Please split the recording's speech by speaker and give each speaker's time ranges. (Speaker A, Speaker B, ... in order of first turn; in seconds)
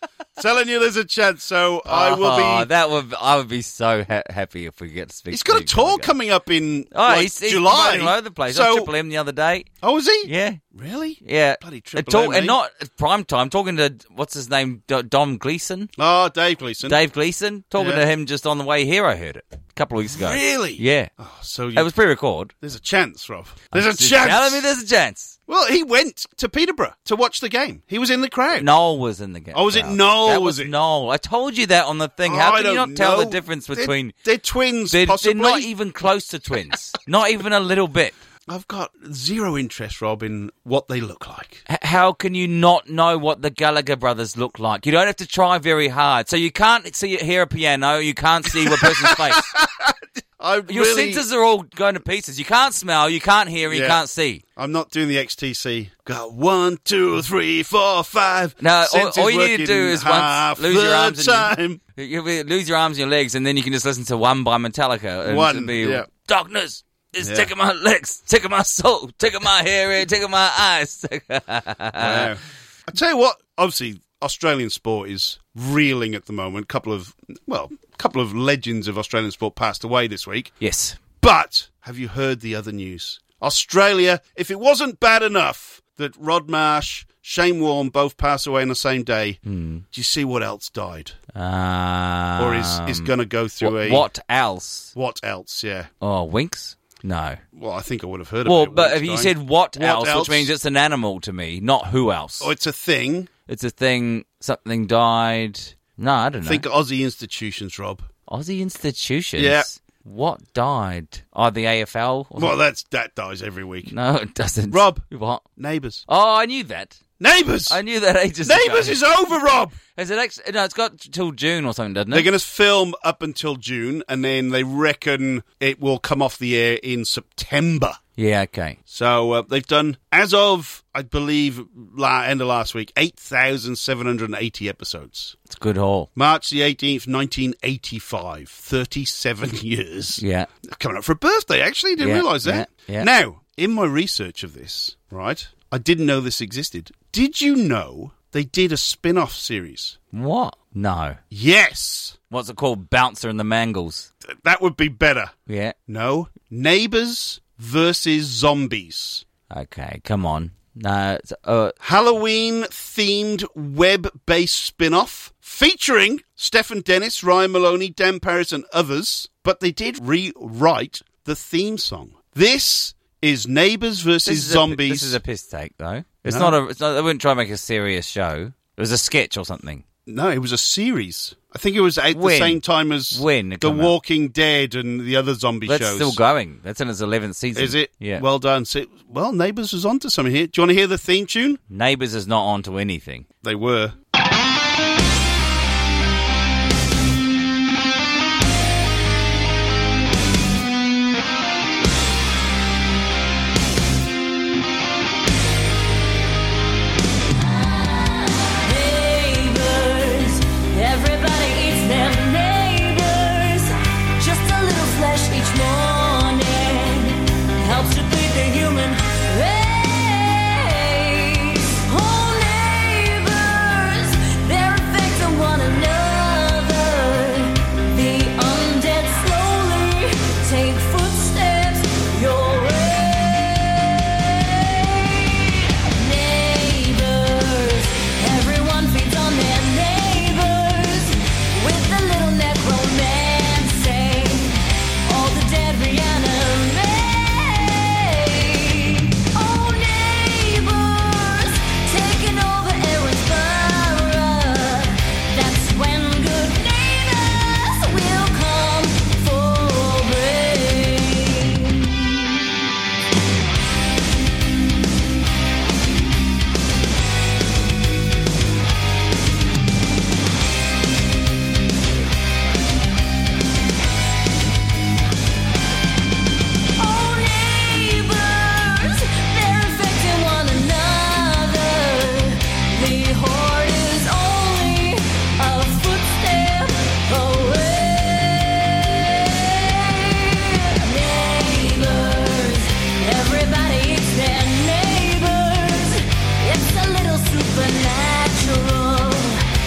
Speaker A: 0.4-2.7, 5.3-8.9, 9.8-12.6, 16.0-17.0, 17.8-18.0, 20.1-21.9, 22.6-24.6, 25.5-28.7, 29.5-30.7, 32.2-35.7, 38.5-41.6, 48.5-51.2, 53.6-54.0, 54.5-61.8, 65.2-66.0, 67.2-67.5, 72.0-80.5, 81.2-89.4, 89.9-91.2, 92.4-94.1, 94.9-95.9, 97.5-100.5, 102.4-103.3, 106.4-108.1, 109.4-109.7, 112.3-113.9, 114.7-115.0, 115.6-116.0, 117.2-117.8, 118.4-119.8, 122.1-128.0, 128.9-135.4, 136.2-150.0, 151.3-152.2, 154.3-155.3, 155.9-159.2, 161.8-175.2, 176.2-176.5, 180.1-186.2, 187.5-191.6, 193.4-193.9
Speaker B: 1.9-6.1, 6.9-9.7, 10.2-10.6, 11.2-15.9, 16.8-21.1, 21.7-22.5, 23.7-25.3, 28.6-34.1, 34.9-38.1, 41.7-49.5, 50.7-54.4, 58.6-72.3, 80.6-81.0, 89.5-89.8, 91.3-94.9, 96.0-97.4, 98.4-102.5, 103.5-106.6, 108.3-112.5, 113.9-115.4, 116.1-117.0, 117.7-119.0, 119.9-122.3, 128.2-128.8, 135.5-136.1, 140.2-140.5, 142.0-143.1, 150.1-151.2, 152.3-154.1, 155.5-155.7, 159.5-161.7, 174.2-179.8, 182.1-182.6, 183.1-183.9, 185.7-188.2, 191.7-193.2
Speaker C: 207.4-234.1, 235.9-261.9, 276.8-289.3, 290.7-299.4